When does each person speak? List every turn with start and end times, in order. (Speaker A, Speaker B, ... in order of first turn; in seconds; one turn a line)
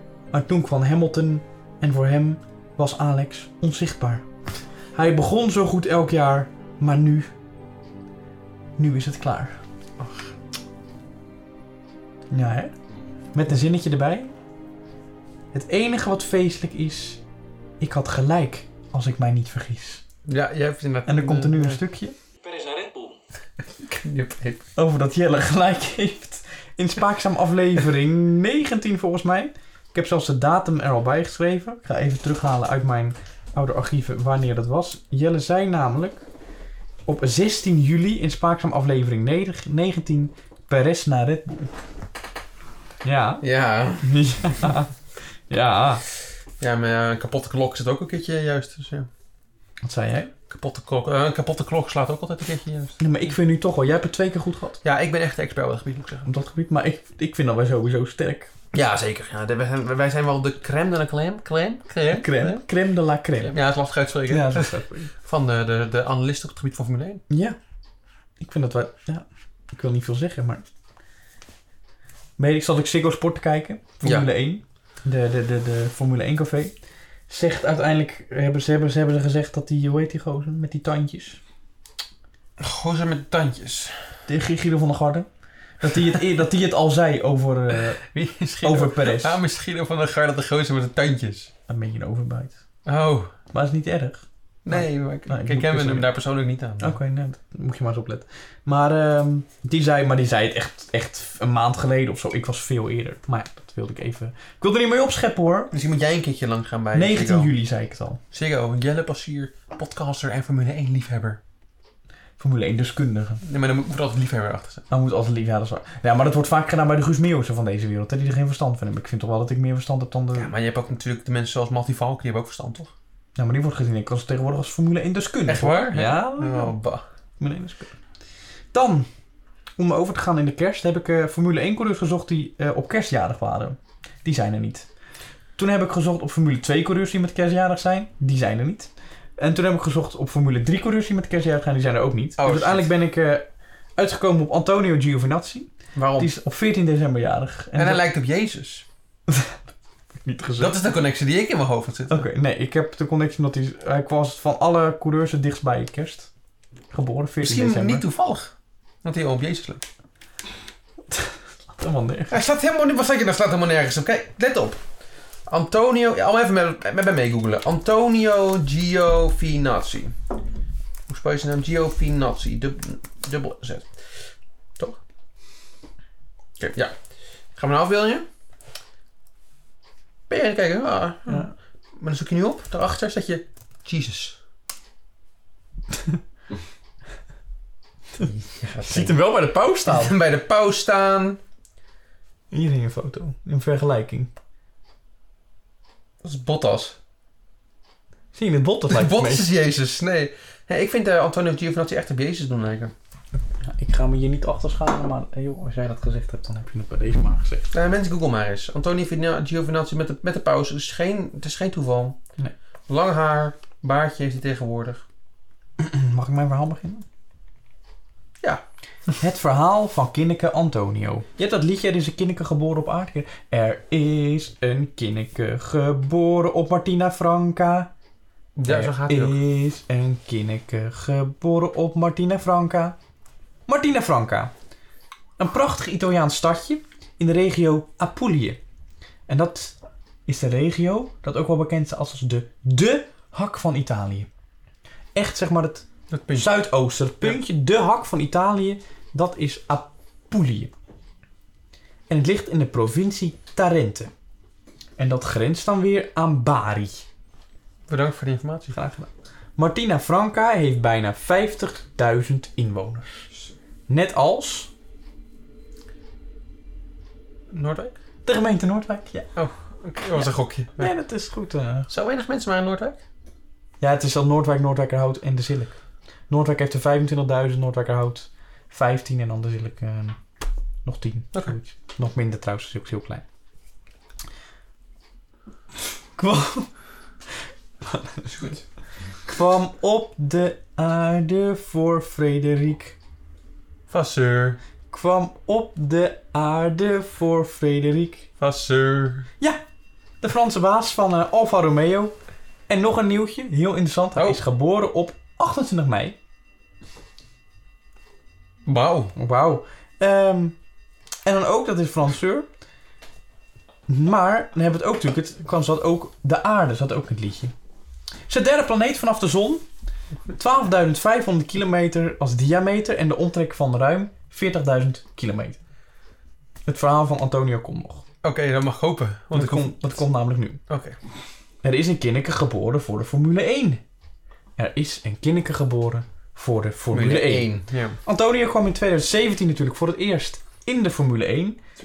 Speaker A: 0.3-4.2
Speaker A: 4.9-7.3
Speaker A: 8.8-9.6
Speaker B: 10.0-10.3
Speaker A: 12.3-12.7
Speaker A: 13.3-14.3
Speaker A: 15.5-17.2
Speaker A: 17.8-20.0
Speaker B: 20.2-21.8
Speaker A: 21.1-23.1
Speaker B: 23.9-24.7
Speaker A: 24.8-36.2
Speaker A: 37.0-41.7
Speaker A: 43.0-43.5
Speaker B: 43.4-44.2
Speaker A: 44.0-44.9
Speaker A: 45.5-46.0
Speaker B: 46.6-49.1
Speaker A: 49.8-50.3
Speaker B: 50.5-53.0
Speaker A: 53.0-54.8
Speaker B: 54.8-56.3
Speaker A: 56.2-58.5
Speaker B: 58.7-62.6
Speaker A: 62.1-63.5
Speaker B: 63.4-67.2
Speaker A: 64.3-65.1
Speaker A: 67.3-67.5
Speaker A: 68.4-70.7
Speaker A: 72.4-76.7
Speaker B: 74.0-74.3
Speaker A: 77.3-81.4
Speaker B: 82.6-84.0
Speaker A: 84.3-85.3
Speaker A: 85.8-88.0
Speaker B: 88.0-91.5
Speaker A: 88.6-89.4
Speaker A: 91.7-92.5
Speaker B: 92.8-93.3
Speaker A: 93.5-96.1
Speaker B: 94.6-97.0
Speaker A: 96.8-105.7
Speaker B: 105.7-107.5
Speaker A: 106.9-108.2
Speaker B: 108.3-111.4
Speaker A: 112.4-113.4
Speaker B: 113.4-114.8
Speaker A: 114.9-120.5
Speaker B: 120.3-122.9
Speaker A: 123.3-126.7
Speaker B: 125.5-127.0
Speaker A: 127.4-128.0
Speaker A: 128.7-129.1
Speaker A: 129.8-134.9
Speaker A: 135.6-148.0
Speaker B: 142.4-142.9
Speaker B: 145.9-146.3
Speaker B: 147.8-148.8
Speaker A: 149.3-149.6
Speaker A: 150.2-150.8
Speaker B: 150.6-152.3
Speaker A: 152.1-156.3
Speaker A: 156.9-158.0
Speaker B: 157.4-159.8
Speaker A: 161.1-162.3
Speaker B: 162.3-164.8
Speaker B: 165.5-170.2
Speaker B: 171.1-175.0
Speaker B: 176.6-176.9
Speaker B: 177.5-178.2
Speaker B: 180.3-184.4
Speaker A: 181.3-181.5
Speaker B: 188.2-189.2
Speaker A: 188.8-190.1
Speaker B: 189.8-191.4
Speaker A: 192.5-194.3
Speaker B: 196.2-196.9
Speaker A: 198.3-199.5
Speaker B: 198.9-202.9
Speaker A: 203.6-207.7
Speaker B: 207.7-212.2
Speaker B: 212.9-215.0
Speaker A: 215.8-217.0
Speaker A: 219.2-227.9
Speaker B: 228.6-229.4
Speaker A: 228.7-232.9
Speaker A: 233.7-234.5
Speaker A: 235.4-238.6
Speaker A: 239.3-244.3
Speaker A: 245.1-250.7
Speaker B: 246.1-246.5
Speaker A: 252.1-254.1
Speaker A: 255.0-257.0
Speaker B: 257.9-258.7
Speaker A: 258.7-263.3
Speaker A: 263.9-264.7
Speaker B: 267.5-267.9
Speaker A: 268.2-269.3
Speaker B: 269.4-270.9
Speaker A: 270.8-271.9
Speaker B: 271.9-273.0
Speaker A: 273.8-275.7
Speaker A: 276.3-280.2
Speaker A: 280.8-283.2
Speaker A: 286.2-286.7
Speaker A: 287.8-288.3
Speaker B: 288.3-288.6
Speaker A: 289.2-293.0
Speaker B: 293.9-294.6
Speaker A: 294.9-298.3
Speaker B: 298.4-299.3
Speaker A: 300.2-302.1
Speaker A: 302.7-306.2
Speaker B: 304.1-304.4
Speaker B: 308.6-309.1
Speaker A: 309.1-310.6
Speaker A: 311.2-312.5
Speaker A: 313.9-317.5
Speaker A: 318.3-319.6
Speaker A: 320.3-325.6
Speaker A: 326.6-328.0
Speaker B: 328.2-330.0
Speaker A: 329.3-330.6
Speaker B: 330.7-331.0
Speaker A: 331.6-333.8
Speaker A: 334.6-341.6
Speaker B: 336.9-338.0